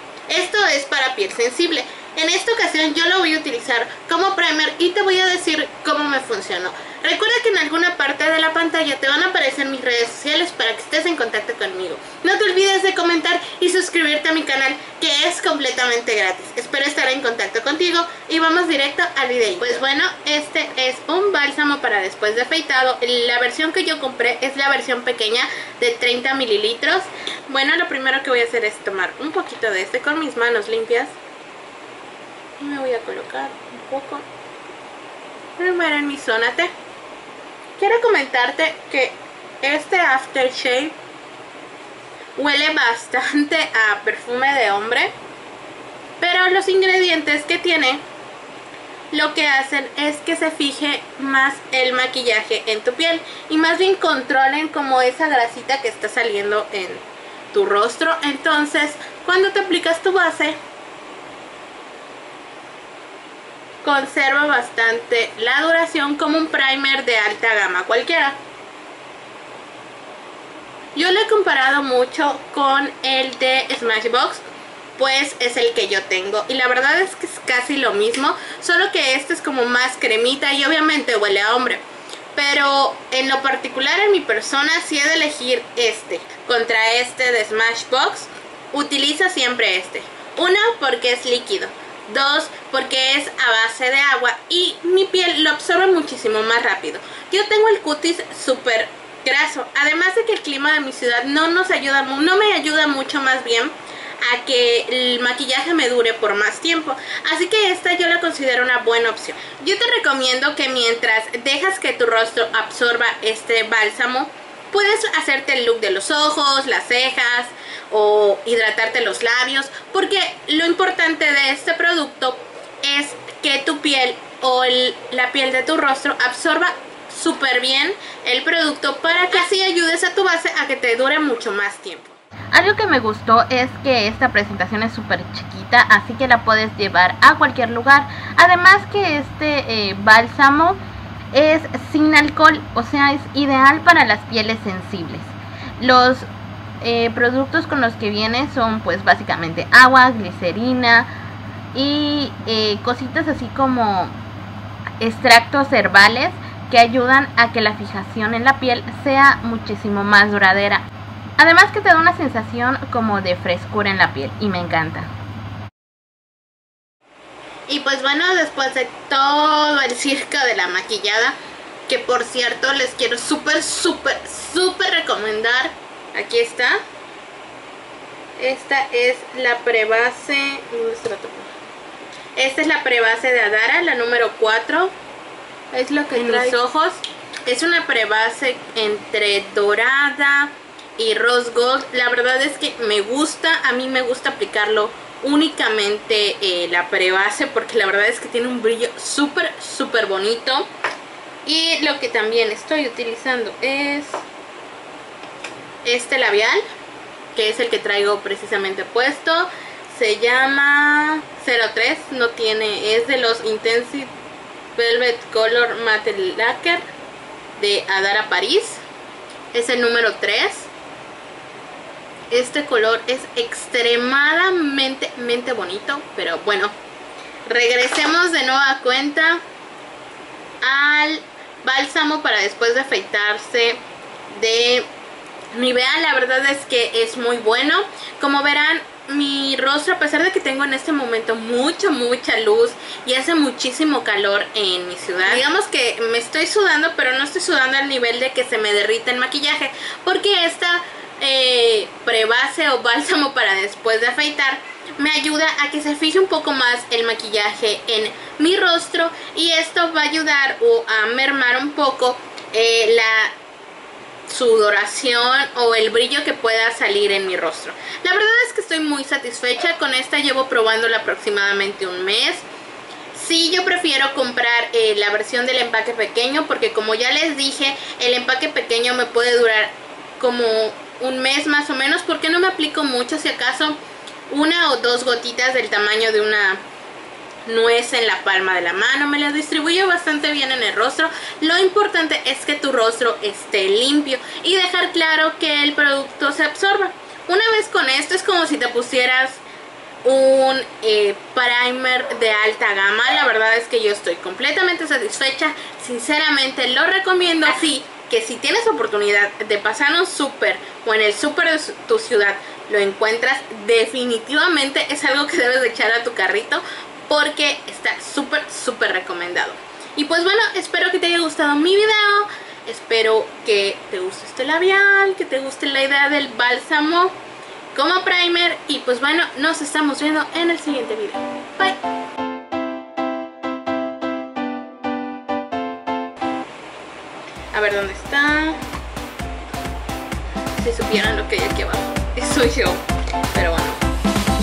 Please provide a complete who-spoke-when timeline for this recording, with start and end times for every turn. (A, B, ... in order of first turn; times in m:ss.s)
0:00.3-0:31.2 A
0:32.6-0:34.3 A
0:35.6-0:36.7 A
0:37.8-0:41.0 A
0:42.4-0:45.2 A
0:46.2-0:48.0 A
0:49.1-1:00.6 A
1:03.8-1:08.4 A
1:11.0-1:14.4 A
1:15.0-1:21.8 A
1:22.4-2:20.8 A
2:21.3-2:26.3 A
2:26.8-2:31.1 A
2:31.7-2:34.2 A
2:35.0-2:40.9 A
2:41.4-2:45.1 A
2:47.7-2:56.8 A
2:58.4-3:01.5 A
3:02.4-3:04.9 A
3:05.7-3:20.7 A
3:21.4-3:24.2 A
3:25.8-3:26.6 A
3:27.4-3:34.1 A
3:34.8-3:36.9 A
3:37.6-3:38.8 A
3:39.5-3:40.7 A
3:42.3-3:46.8 A
3:47.5-3:49.4 A
3:50.6-3:54.9 A
3:55.5-4:23.3 A
4:24.3-4:32.5 A
4:33.1-4:43.8 A
4:44.3-4:46.6 A
4:47.5-4:59.4 A
5:00.0-5:27.2 A
5:27.7-5:31.8 A
5:37.5-5:38.6 A
5:40.6-5:43.8 A